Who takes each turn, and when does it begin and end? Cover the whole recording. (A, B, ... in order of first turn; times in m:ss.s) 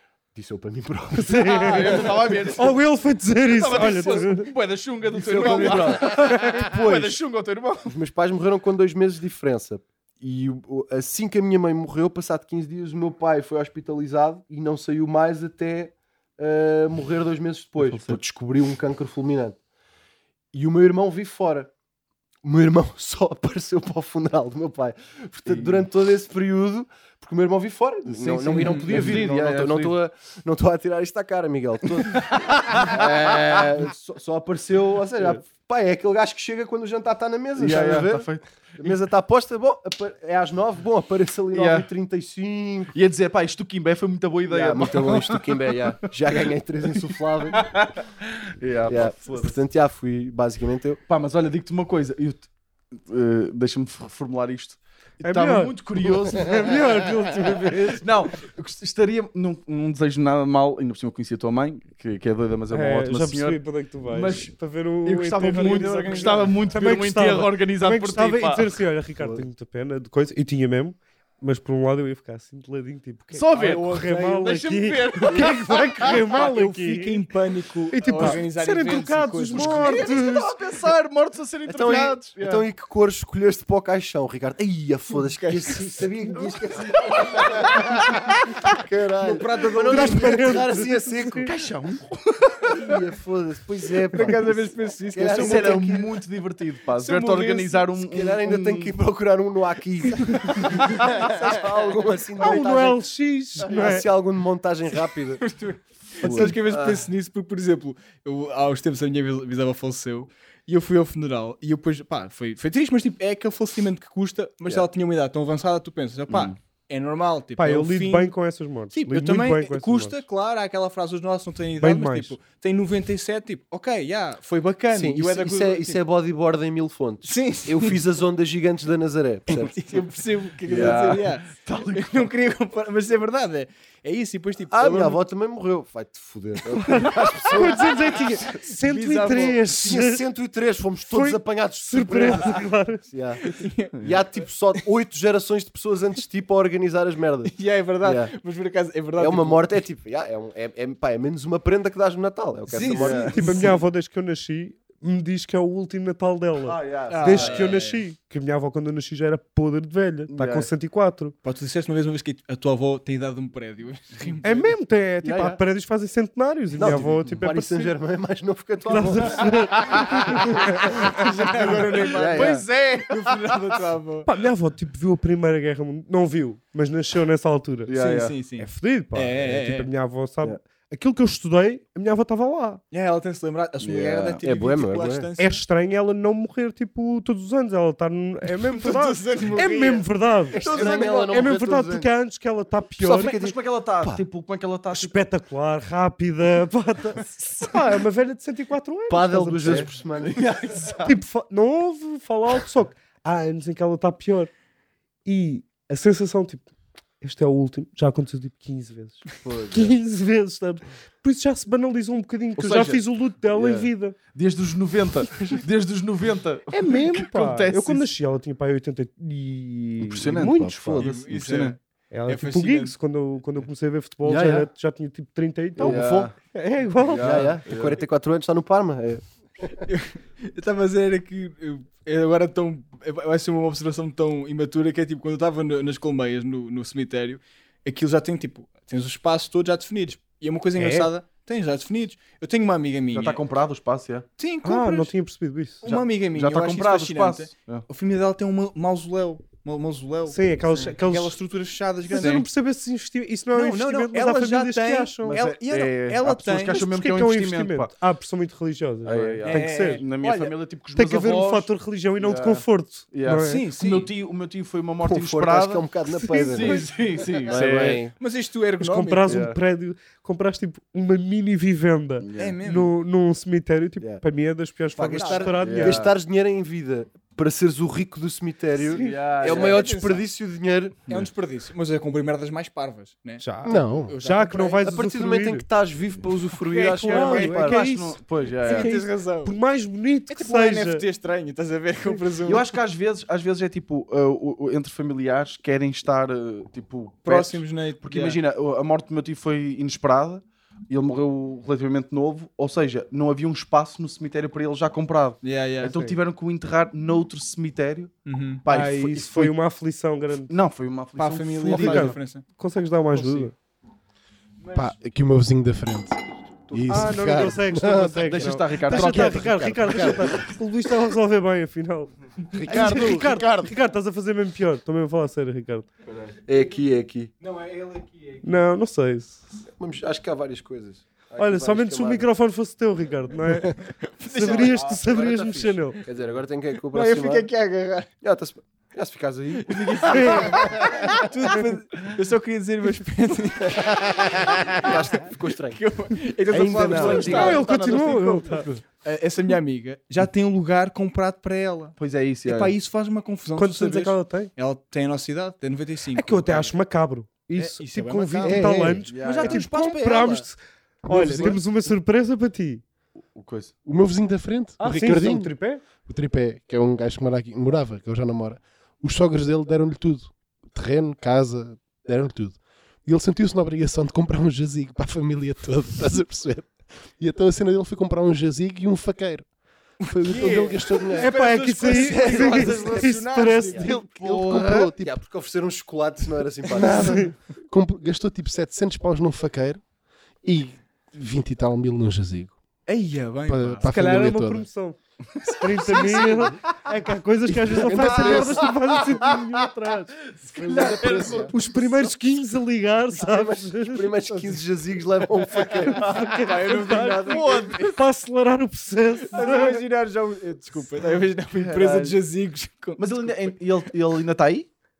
0:00.3-0:02.2 A
0:01.1-0:04.5 B
0:01.4-0:02.8 C
0:03.4-0:07.9 C
0:05.1-0:07.2 A
0:06.3-0:06.5 B
0:07.8-0:19.6 A
0:17.8-0:18.2 C
0:20.5-0:21.7 A
0:22.4-0:38.3 A
0:25.5-0:25.8 C
0:28.1-0:30.0 C
0:28.5-0:29.2 D
0:32.1-0:33.8 C
0:37.6-0:39.0 C
0:38.8-0:42.9 A
0:41.5-0:41.9 C
0:42.9-0:45.7 C
0:44.5-0:47.7 A
0:47.5-0:49.6 C
0:48.9-0:51.0 A
0:51.1-0:56.9 C
0:55.2-0:58.0 B
0:58.0-1:08.8 C
1:02.7-1:17.2 B
1:05.4-1:06.6 D
1:13.3-1:13.9 C
1:13.5-1:15.5 D
1:14.7-1:16.4 C
1:16.0-1:20.1 D
1:17.9-1:20.5 B
1:19.5-1:22.6 C
1:21.6-1:31.5 A
1:25.2-1:26.5 D
1:29.2-1:30.8 D
1:29.8-1:31.5 B
1:31.4-1:32.7 C
1:32.7-1:36.1 A
1:34.1-1:35.9 D
1:35.3-1:39.0 C
1:37.0-1:37.6 D
1:37.5-1:43.0 A
1:40.6-1:40.9 C
1:40.8-1:42.6 D
1:42.4-1:44.1 B
1:43.6-1:45.4 A
1:45.4-1:58.3 D
1:46.2-1:47.0 A
1:46.2-1:46.5 C
1:56.3-1:56.6 C
1:57.6-2:00.2 B
1:58.9-2:06.0 D
2:01.8-2:02.4 B
2:04.9-2:09.7 A
2:07.2-2:08.0 D
2:09.5-2:15.2 D
2:10.6-2:12.3 C
2:10.7-2:11.0 A
2:14.7-2:18.2 A
2:16.7-2:20.2 B
2:18.5-2:19.6 D
2:19.7-2:28.3 A
2:21.1-2:23.0 B
2:23.4-2:24.0 D
2:27.5-2:29.7 D
2:29.2-2:33.5 A
2:32.7-2:33.7 D
2:32.9-2:33.7 C
2:33.3-2:41.4 B
2:36.6-2:37.8 C
2:37.1-2:38.0 D
2:40.3-2:40.7 C
2:41.4-2:44.5 D
2:44.4-2:47.9 B
2:45.2-2:45.6 A
2:46.8-2:49.7 A
2:46.8-2:47.2 C
2:48.9-2:51.6 B
2:49.7-2:50.6 C
2:50.9-2:54.3 D
2:51.1-2:52.6 A
2:51.4-2:53.6 C
2:54.2-2:58.0 B
2:57.9-2:58.3 C
2:57.9-2:59.9 D
2:58.6-3:02.8 B
3:02.9-3:05.6 D
3:03.8-3:04.4 C
3:04.4-3:05.3 A
3:05.4-3:13.4 B
3:08.5-3:10.0 D
3:10.6-3:11.3 C
3:10.6-3:12.1 A
3:10.7-3:11.0 D
3:13.0-3:14.2 A
3:13.2-3:15.2 C
3:14.9-3:19.9 B
3:19.1-3:20.5 A
3:19.6-3:21.2 C
3:21.0-3:24.5 B
3:25.2-3:26.6 B
3:27.2-3:34.2 B
3:29.4-3:29.7 C
3:29.4-3:29.9 A
3:32.6-3:38.1 C
3:36.7-3:41.2 B
3:40.0-3:41.8 C
3:41.0-3:42.9 D
3:42.1-3:47.6 B
3:44.2-3:44.7 A
3:45.8-3:46.3 A
3:45.8-3:46.3 C
3:47.0-3:48.0 C
3:47.2-3:49.2 A
3:49.8-4:03.4 D
4:00.8-4:01.1 B
4:03.1-4:04.2 C
4:04.4-4:05.1 D
4:04.6-4:05.8 B
4:05.8-4:12.4 D
4:05.8-4:07.8 C
4:10.3-4:11.4 B
4:12.1-4:15.4 B
4:12.1-4:12.5 C
4:13.5-4:16.8 D
4:15.2-4:17.9 C
4:16.6-4:20.0 B
4:19.0-4:28.0 C
4:19.4-4:20.5 D
4:20.9-4:23.6 B
4:23.4-4:24.1 D
4:25.0-4:26.9 A
4:26.1-4:26.9 B
4:27.4-4:28.1 A
4:28.2-4:29.5 D
4:28.8-4:36.1 B
4:29.3-4:29.6 C
4:32.2-4:32.6 C
4:32.4-4:32.9 D
4:34.9-4:41.0 A
4:35.1-4:35.6 D
4:35.6-4:36.1 C
4:38.8-4:39.1 B
4:39.0-4:39.9 C
4:39.4-4:40.2 D
4:41.1-4:44.8 D
4:43.4-4:45.6 B
4:43.6-4:44.2 E
4:44.7-4:47.8 A
4:46.6-4:47.7 D
4:46.9-4:48.9 C
4:47.0-4:51.0 B
4:48.6-4:49.6 D
4:50.3-4:52.7 D
4:52.4-5:08.1 C
4:57.2-4:58.4 D
5:05.4-5:06.0 D
5:08.2-5:08.6 D
5:08.6-5:09.5 C
5:08.7-5:10.5 B
5:10.5-5:12.2 C
5:11.2-5:12.4 D
5:11.7-5:13.5 B
5:13.1-5:13.5 D
5:14.6-5:14.9 D
5:14.7-5:16.2 E
5:16.7-5:20.3 E
5:16.7-5:17.5 A
5:16.9-5:25.9 B
5:18.2-5:20.4 C
5:22.5-5:23.8 E
5:26.4-5:27.3 A
5:27.4-5:28.6 D
5:28.4-5:29.4 B
5:29.7-5:32.2 A
5:31.4-5:36.0 B
5:33.8-5:34.9 D
5:34.3-5:37.5 A
5:36.9-5:38.1 D
5:38.2-5:41.3 A
5:39.6-5:56.7 D
5:40.1-5:41.0 B
5:44.0-5:45.8 A
5:46.5-5:47.6 A
5:46.5-5:48.4 C
5:47.1-5:48.8 B
5:52.0-5:52.7 C
5:53.6-5:54.5 B
5:56.1-6:02.8 B
5:57.6-6:00.5 D
5:58.4-5:59.1 E
5:59.1-5:59.6 C
6:01.1-6:01.6 D
6:03.4-6:03.7 C
6:03.8-6:19.5 E
6:04.8-6:05.8 B
6:20.0-6:21.3 E
6:20.2-6:24.0 D
6:21.2-6:24.0 B
6:21.8-6:23.1 A
6:23.7-6:27.3 A
6:23.9-6:25.2 E
6:26.7-6:29.8 E
6:26.8-6:27.3 B
6:30.4-6:32.6 E
6:32.9-6:34.3 D
6:33.4-6:34.7 E
6:33.8-6:40.1 B
6:35.4-6:36.3 C
6:37.6-6:38.8 E
6:40.5-6:41.4 C
6:40.6-6:41.5 E
6:40.7-6:41.6 D
6:41.5-6:44.2 B
6:43.1-6:46.1 A
6:45.8-6:49.8 B
6:45.9-6:48.0 D
6:47.3-6:47.9 C
6:49.3-6:53.4 D
6:51.5-6:52.2 C
6:53.0-6:54.7 C